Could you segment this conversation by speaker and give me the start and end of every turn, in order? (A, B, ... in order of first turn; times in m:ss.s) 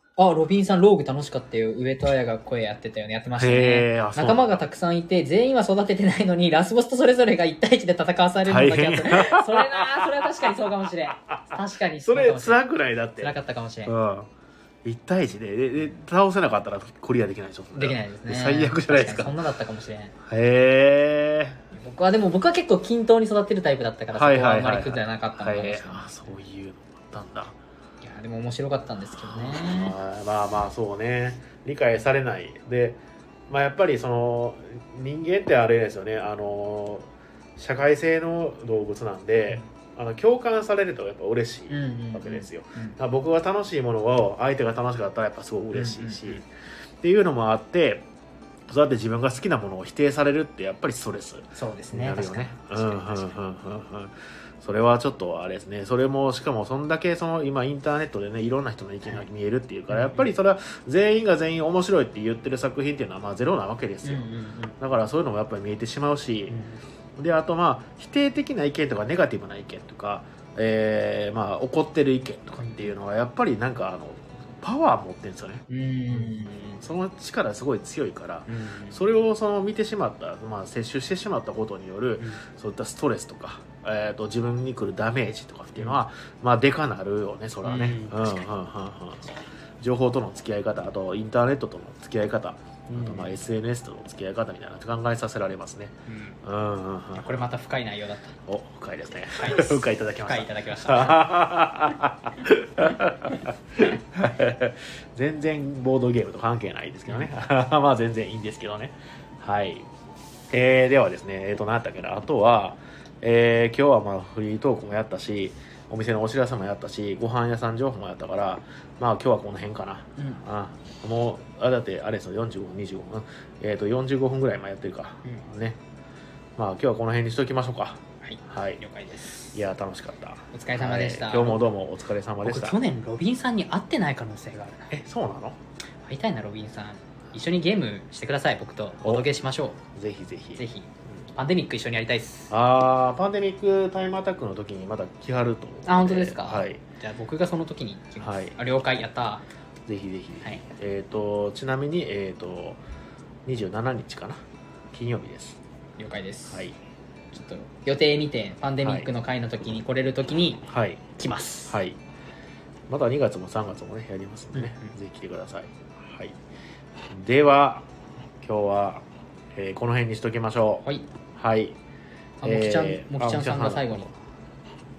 0:00.2-0:12.6 A
0:03.4-0:04.6 B
0:08.4-0:11.4 B
0:12.0-0:14.3 B
0:13.2-0:13.9 A
0:14.8-0:19.4 B
0:17.7-0:20.1 A
0:20.2-0:21.6 B
0:21.7-0:26.1 A
0:24.1-0:27.6 B
0:28.0-0:30.0 A
0:29.1-0:46.4 B
0:41.7-0:43.0 A
0:45.7-0:46.4 A
0:47.0-0:48.1 B
0:48.7-1:06.6 B
0:51.6-0:53.4 A
0:59.9-1:00.3 A
1:04.0-1:04.7 A
1:06.5-1:06.8 A
1:07.2-1:37.5 B
1:12.6-1:12.9 A
1:15.7-1:16.8 A
1:18.5-1:19.0 A
1:27.6-1:28.4 A
1:32.9-1:33.4 A
1:36.1-1:36.4 A
1:37.1-1:38.4 A
1:38.5-1:49.9 B
1:39.4-1:41.3 A
1:50.5-2:05.8 B
2:00.2-2:00.4 A
2:06.6-2:08.8 B
2:08.2-2:09.5 A
2:09.5-2:12.8 B
2:10.5-2:11.6 A
2:12.4-2:14.9 A
2:14.9-2:15.6 B
2:16.1-2:19.8 A
2:19.0-2:19.3 B
2:19.9-2:20.6 B
2:20.6-2:22.5 A
2:22.5-2:26.8 B
2:25.9-2:29.4 A
2:28.2-2:28.6 B
2:29.9-2:32.8 B
2:33.4-2:35.6 B
2:36.0-2:36.7 A
2:36.5-2:36.8 B
2:37.3-2:40.7 A
2:38.8-2:39.1 B
2:40.7-2:41.1 B
2:41.2-2:41.8 A
2:41.7-2:42.0 B
2:42.9-2:46.4 B
2:44.5-2:44.9 A
2:47.1-2:47.9 B
2:48.4-2:50.8 B
2:51.4-2:51.8 B
2:52.4-2:54.1 A
2:52.4-2:54.1 B